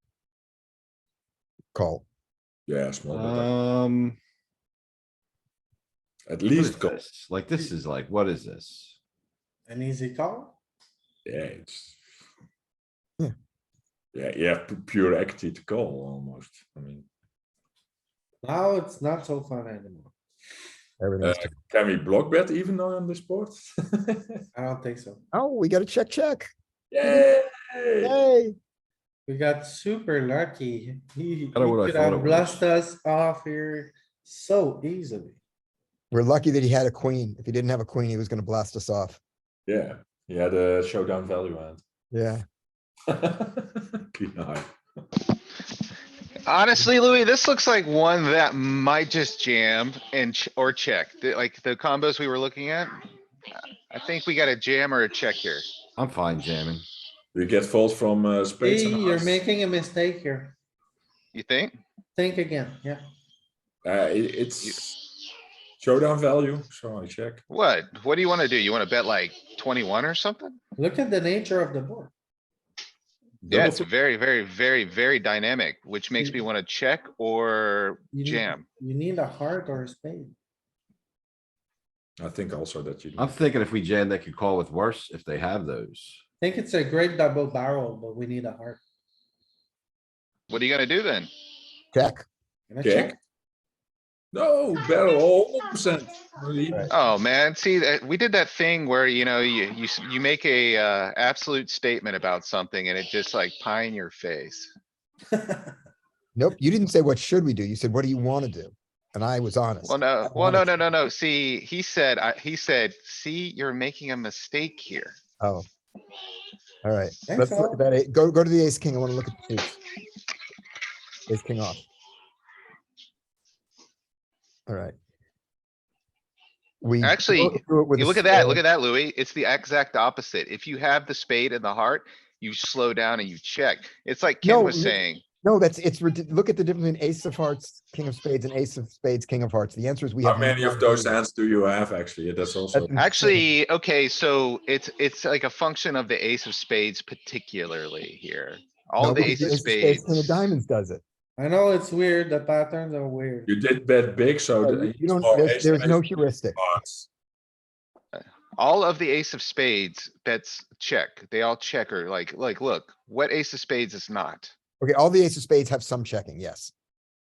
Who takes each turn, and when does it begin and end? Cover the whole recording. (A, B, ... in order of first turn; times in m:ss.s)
0:01.7-0:02.0 A
0:02.7-0:03.5 B
0:03.1-0:04.2 C
0:06.3-0:07.0 B
0:06.5-0:09.0 C
0:09.7-0:10.6 D
0:11.2-0:12.0 B
0:14.1-0:17.0 B
0:18.4-0:20.1 D
0:21.0-0:21.5 A
0:21.2-0:24.4 B
0:24.5-0:25.2 D
0:25.3-0:26.5 A
0:26.9-0:28.2 B
0:28.0-0:28.6 A
0:29.3-0:35.4 D
0:31.5-0:32.6 C
0:36.1-0:39.2 A
0:39.6-0:41.8 B
0:42.1-0:42.4 A
0:43.1-0:44.7 B
0:46.4-0:53.0 E
0:53.9-0:55.7 E
0:56.0-0:56.8 C
0:57.3-0:59.4 B
0:58.6-1:00.6 D
1:01.3-1:01.8 E
1:02.2-1:03.0 D
1:03.8-1:05.0 B
1:04.6-1:04.9 E
1:05.8-1:07.4 B
1:07.5-1:10.6 E
1:10.8-1:12.1 D
1:13.4-1:13.9 B
1:13.5-1:18.6 E
1:18.1-1:20.3 D
1:22.2-1:23.3 B
1:23.2-1:26.2 C
1:26.4-1:28.8 D
1:30.5-1:31.3 E
1:31.9-1:32.2 A
1:32.7-1:33.2 D
1:32.8-1:33.2 B
1:34.3-1:36.9 B
1:36.9-1:44.7 E
1:45.3-1:45.8 D
1:46.4-1:50.8 A
1:49.8-1:55.2 E
1:55.4-1:55.6 A
1:56.8-1:59.8 A
1:57.3-1:57.8 D
2:01.3-2:01.8 A
2:04.7-2:04.9 A
2:06.8-2:08.6 A
2:07.0-2:15.2 E
2:14.4-2:21.2 A
2:20.2-2:22.9 B
2:22.7-2:23.5 A
2:22.9-2:30.4 E
2:29.0-2:31.0 A
2:31.4-2:33.5 D
2:33.5-2:36.0 B
2:34.6-2:36.6 A
2:36.6-2:37.1 B
2:38.1-2:44.5 E
2:44.8-2:46.7 A